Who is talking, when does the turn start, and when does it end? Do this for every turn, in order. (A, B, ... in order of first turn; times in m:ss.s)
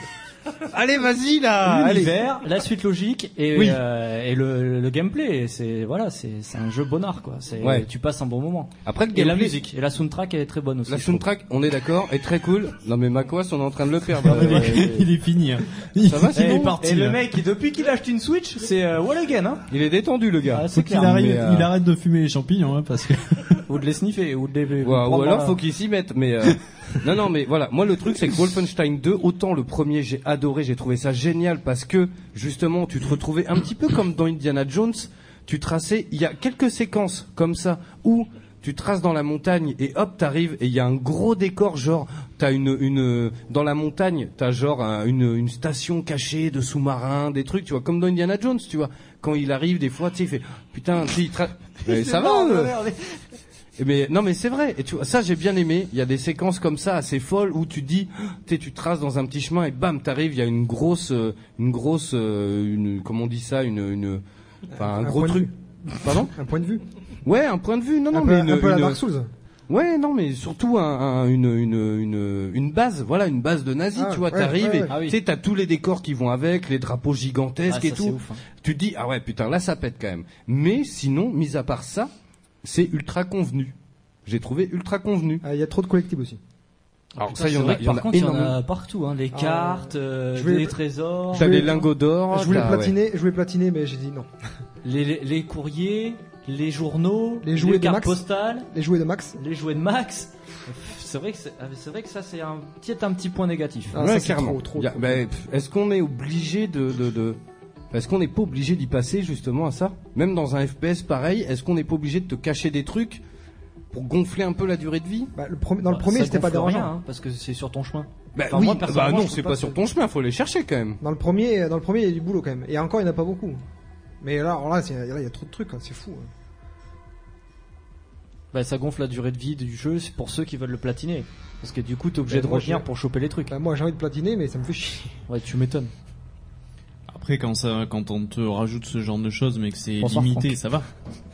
0:00.7-0:02.2 A
0:01.6-0:11.2 B
0:08.8-0:09.6 A
0:10.9-0:15.0 A
0:14.2-0:17.2 C
0:14.2-0:15.1 B
0:16.0-0:16.8 A
0:16.3-0:19.6 B
0:19.7-0:21.7 A
0:20.5-0:21.1 B
0:20.7-0:23.6 C
0:23.7-0:25.6 B
0:24.8-0:52.7 A
0:51.8-0:53.0 B
0:53.8-1:04.2 A
1:04.8-1:05.5 A
1:04.8-1:05.5 D
1:06.0-1:06.8 D
1:06.0-1:06.3 A
1:07.2-1:09.0 A
1:08.1-1:09.3 D
1:09.7-1:22.1 A
1:14.0-1:14.9 D
1:14.9-1:15.2 B
1:17.7-1:18.4 B
1:22.6-1:23.7 A
1:24.3-1:25.4 A
1:25.4-1:26.4 D
1:27.2-1:28.6 A
1:27.2-1:31.8 B
1:29.3-1:30.8 D
1:31.3-1:34.3 D
1:31.3-1:33.0 A
1:34.8-1:38.7 B
1:37.4-1:39.4 D
1:39.4-1:44.0 B
1:43.9-1:45.2 D
1:43.9-1:47.4 A
1:47.9-1:53.2 A
1:53.9-1:55.3 A
1:55.4-1:56.9 D
1:55.9-1:59.8 B
1:58.4-2:01.0 A
2:01.0-2:03.6 D
2:04.2-2:06.3 D
2:08.5-2:13.5 B
2:12.3-2:12.9 D
2:13.5-2:15.2 D
2:15.3-2:15.9 B
2:17.1-2:20.9 C
2:20.0-2:20.5 B